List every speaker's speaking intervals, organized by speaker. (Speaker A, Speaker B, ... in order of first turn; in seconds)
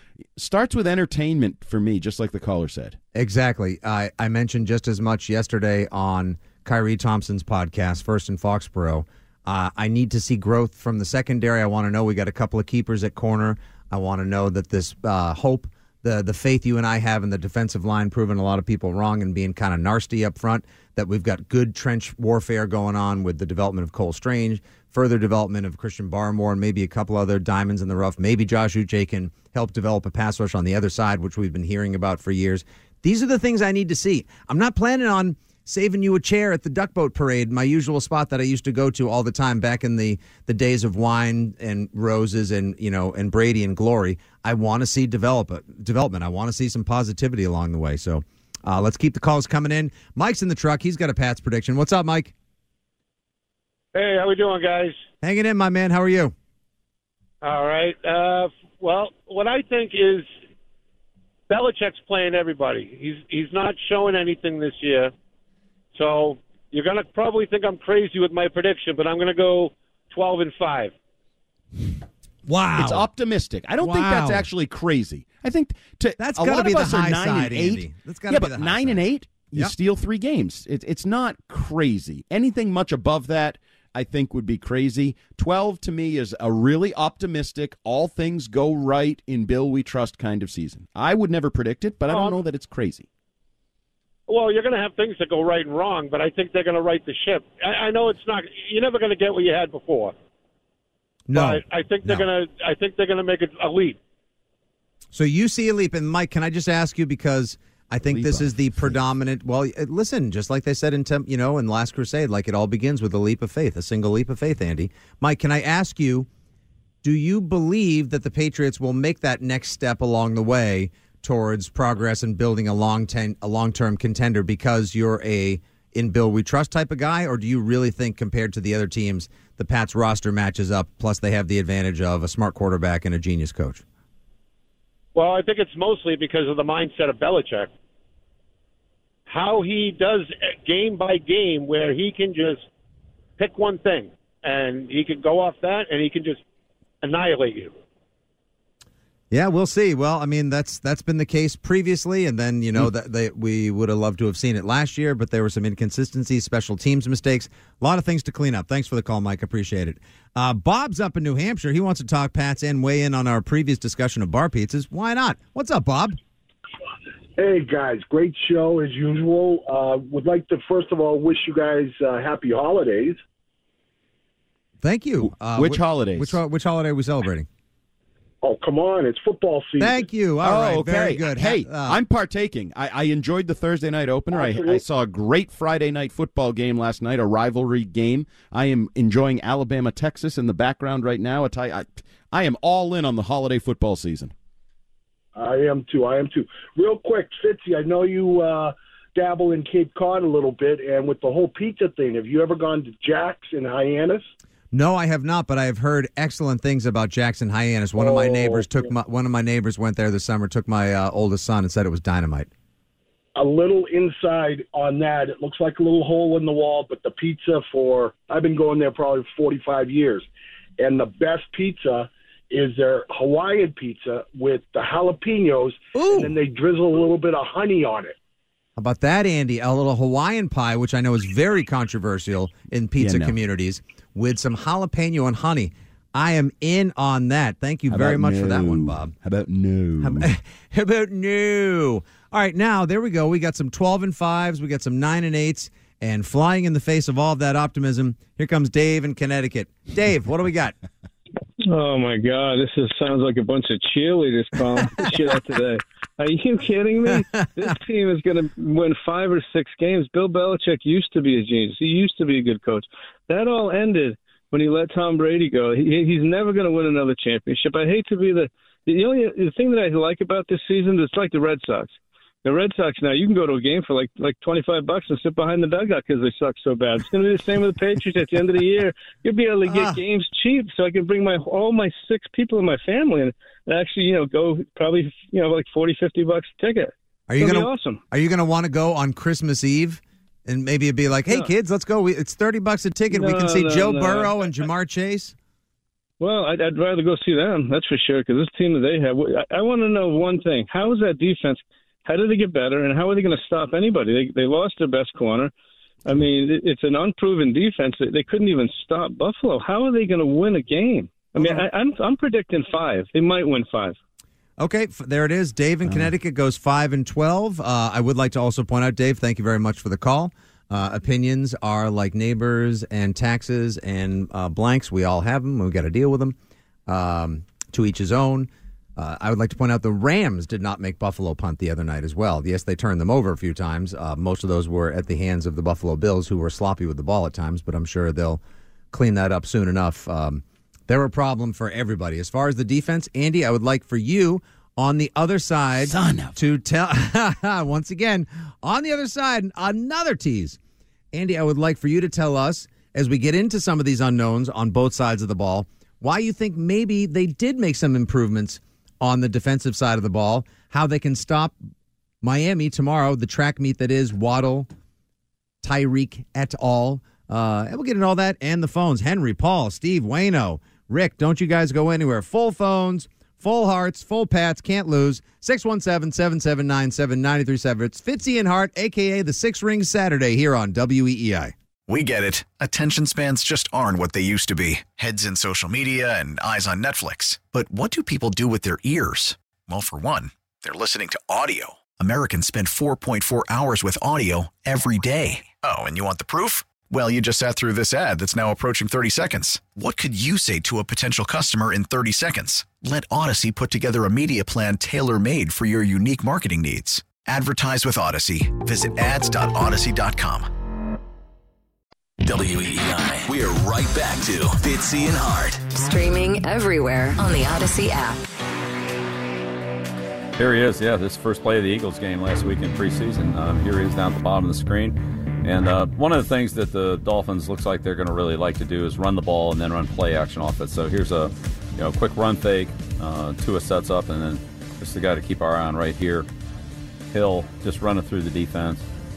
Speaker A: 0.3-3.0, 72.8-93.1, 108.0-109.0, 175.5-176.4, 180.4-194.3, 233.0-233.3, 237.9-240.3, 345.8-346.3
Speaker B: 3.1-52.3, 55.2-56.3, 72.5-73.0, 73.8-74.5, 76.2-79.0, 101.3-102.3, 105.1-116.3, 117.0-133.8, 149.3-166.2, 174.8-177.5, 179.8-182.0, 204.7-212.5, 225.9-226.4, 228.8-239.1, 240.0-250.7, 257.1-257.6, 279.6-280.0, 287.3-295.3, 311.3-311.6, 314.6-326.4, 326.9-350.6, 351.1-361.6, 362.2-364.7, 365.6-381.5
Speaker C: 53.9-54.9, 57.4-60.3, 61.5-65.1, 65.9-70.9, 92.1-92.4, 94.3-100.1, 101.3-104.0, 135.1-137.7, 139.3-142.7, 143.4-146.4, 147.0-147.7
Speaker D: 167.4-173.2, 178.4-180.1, 184.3-184.8, 195.3-204.2, 208.0-208.9, 213.3-220.2, 220.8-228.1
Speaker E: 251.7-288.0, 293.1-294.4, 296.2-305.5, 306.0-314.0
Speaker F: 381.9-410.5
Speaker G: 412.2-415.7
Speaker H: 415.7-418.2
Speaker I: 420.4-436.3, 437.1-438.8